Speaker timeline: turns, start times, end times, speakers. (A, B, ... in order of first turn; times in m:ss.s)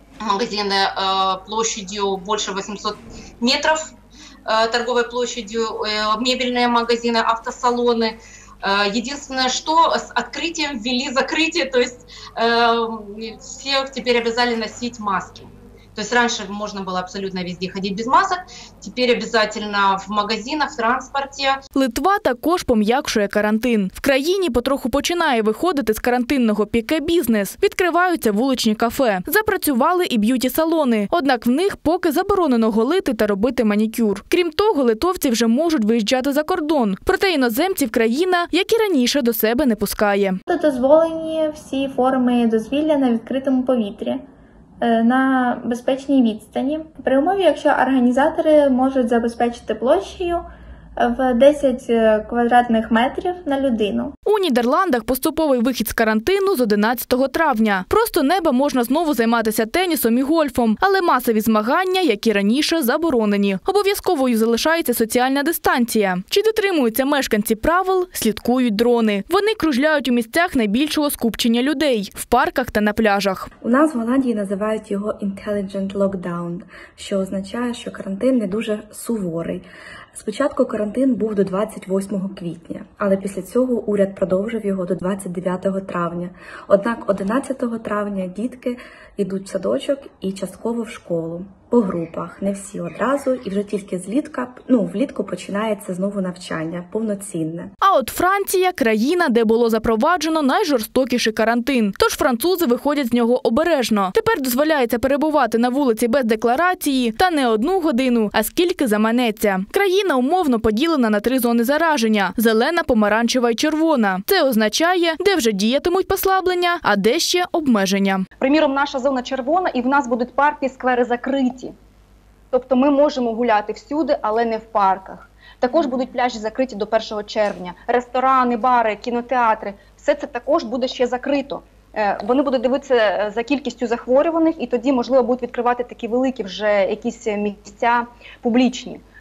0:00.2-0:03.9 A
0:04.5-0:21.6 A
0:21.7-0:40.4 B
0:40.5-0:44.2 C
0:44.8-0:50.4 C
0:51.0-0:54.1 C
0:54.2-1:13.5 B
1:13.6-1:37.7 D
1:37.8-1:58.2 B
1:58.4-2:01.7 E
2:02.5-2:19.0 E